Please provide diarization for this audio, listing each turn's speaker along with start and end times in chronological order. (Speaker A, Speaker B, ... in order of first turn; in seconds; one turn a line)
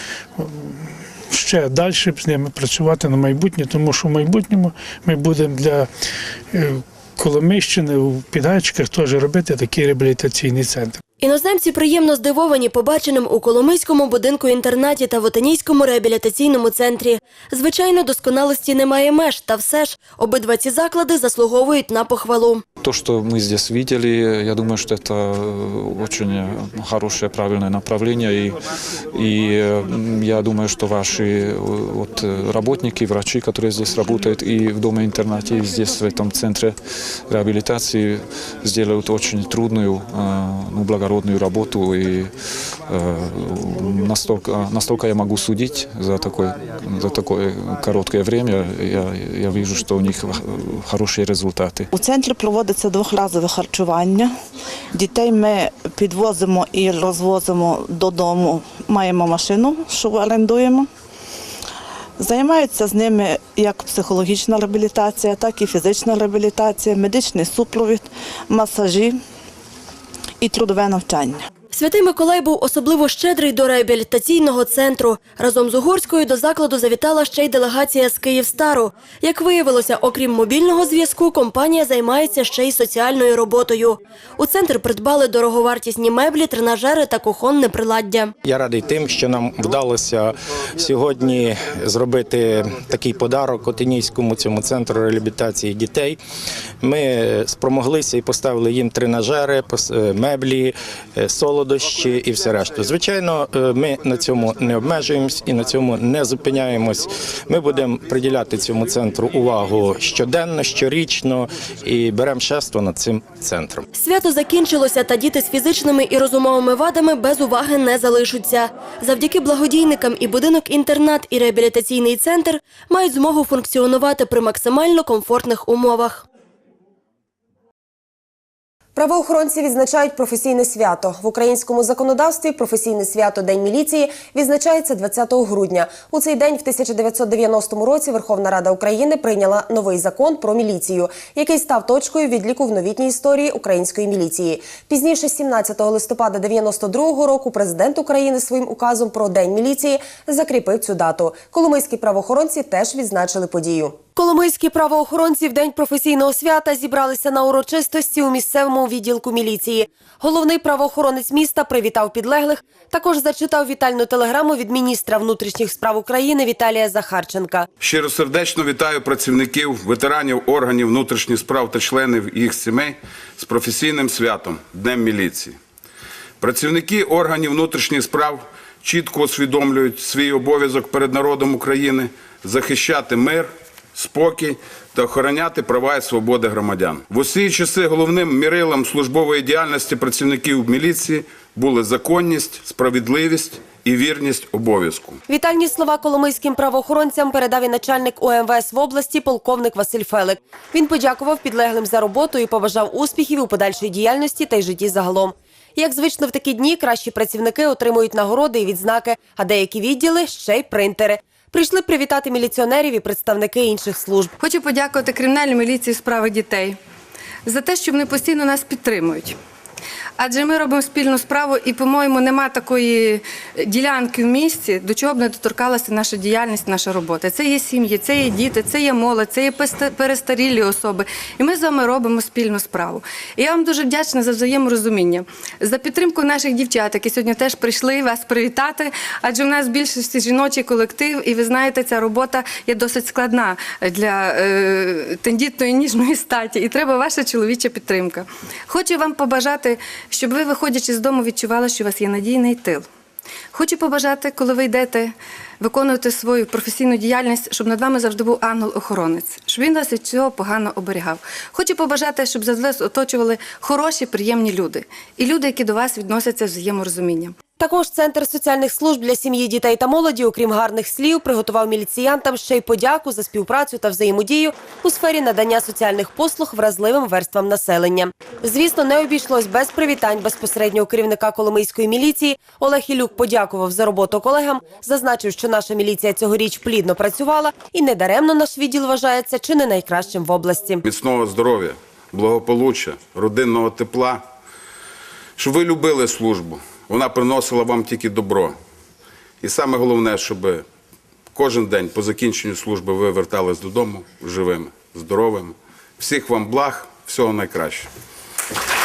Speaker A: 0.3-5.9
Speaker A: 6.5-11.0
Speaker B: 11.2-22.6
Speaker C: 22.8-36.8
Speaker C: 37.3-51.9
Speaker D: 51.9-54.3
Speaker D: 54.9-60.9
Speaker D: 62.2-69.2
Speaker D: 70.4-71.4
Speaker B: 71.7-88.3
Speaker E: 88.4-96.2
Speaker E: 96.8-113.8
Speaker B: 113.9-126.2
Speaker F: 128.9-167.7
Speaker G: 167.8-175.6
Speaker G: 176.4-195.2
Speaker F: 195.3-214.3
Speaker H: 214.4-216.8
Speaker H: 217.4-219.3
Speaker H: 220.2-252.8
Speaker H: 253.5-267.4
Speaker F: 267.6-290.8
Speaker G: 290.8-294.2
Speaker G: 295.4-298.6
Speaker G: 299.4-300.6
Speaker G: 301.3-307.9